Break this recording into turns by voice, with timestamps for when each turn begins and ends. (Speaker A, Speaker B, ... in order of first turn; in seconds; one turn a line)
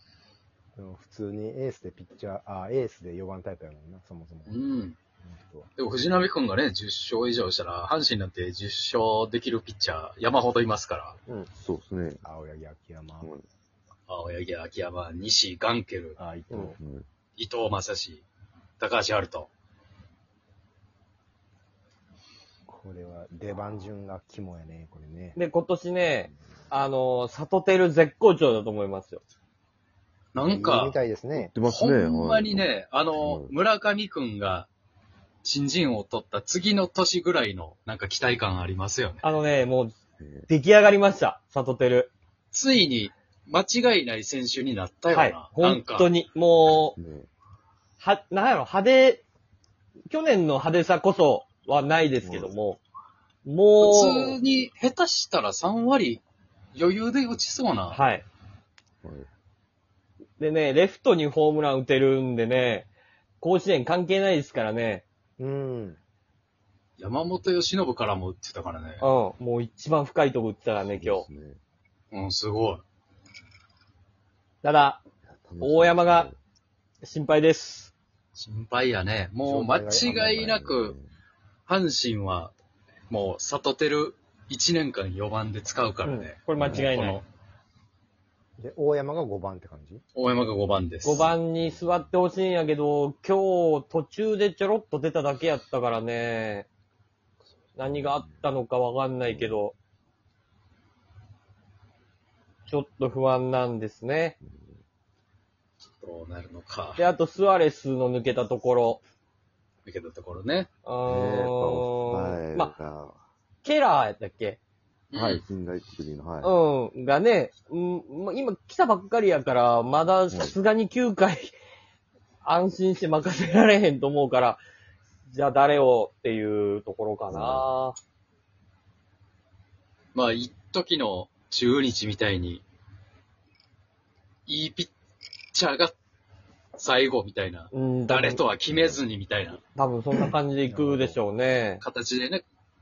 Speaker A: 0.8-4.6
Speaker B: 4.5-5.0
Speaker A: 5.2-5.7
Speaker B: 5.8-11.2
Speaker C: 11.6-12.2
Speaker A: 12.2-13.3
Speaker B: 14.1-16.2
Speaker A: 16.2-16.8
Speaker C: 16.8-17.1
Speaker B: 17.4-18.2
Speaker B: 18.8-19.5
Speaker A: 22.7-25.4
Speaker D: 25.4-29.2
Speaker B: 30.3-31.0
Speaker A: 30.4-31.5
Speaker C: 31.3-33.5
Speaker B: 31.6-34.7
Speaker B: 35.4-39.2
Speaker D: 39.2-40.0
Speaker C: 40.2-40.5
Speaker D: 40.5-42.1
Speaker B: 42.5-46.1
Speaker D: 45.1-47.0
Speaker C: 47.0-47.3
Speaker D: 48.0-49.2
Speaker D: 50.1-52.8
Speaker C: 52.2-52.5
Speaker D: 53.5-54.4
Speaker B: 53.8-56.2
Speaker B: 56.8-58.0
Speaker D: 57.9-58.2
Speaker D: 60.4-62.9
Speaker D: 63.4-65.0
Speaker A: 65.4-66.0
Speaker B: 67.0-69.0
Speaker D: 69.0-71.3
Speaker C: 70.9-71.6
Speaker B: 72.1-72.8
Speaker D: 74.6-75.0
Speaker C: 75.2-76.4
Speaker D: 75.6-76.3
Speaker D: 77.0-77.9
Speaker B: 78.4-81.0
Speaker A: 79.5-80.1
Speaker C: 80.0-81.1
Speaker B: 81.7-82.5
Speaker B: 83.1-87.2
Speaker D: 86.0-87.2
Speaker C: 86.6-86.9
Speaker A: 88.6-90.0
Speaker B: 90.2-91.3
Speaker D: 91.0-96.7
Speaker C: 97.7-98.5
Speaker D: 97.8-99.8
Speaker C: 99.3-99.6
Speaker D: 102.7-104.3
Speaker C: 104.4-104.8
Speaker B: 106.0-107.0
Speaker D: 107.0-109.0
Speaker B: 109.9-110.7
Speaker D: 110.8-112.7
Speaker C: 111.0-113.2
Speaker D: 113.6-114.6
Speaker B: 115.1-115.4
Speaker C: 115.1-116.6
Speaker D: 116.4-121.5
Speaker C: 120.3-120.6
Speaker D: 122.4-124.6
Speaker D: 125.3-128.0
Speaker C: 127.3-127.7
Speaker B: 130.1-132.6
Speaker B: 134.5-134.9
Speaker B: 135.5-136.0
Speaker B: 136.8-139.6
Speaker D: 137.7-138.4
Speaker D: 139.8-141.8
Speaker A: 140.7-141.2
Speaker B: 141.8-142.4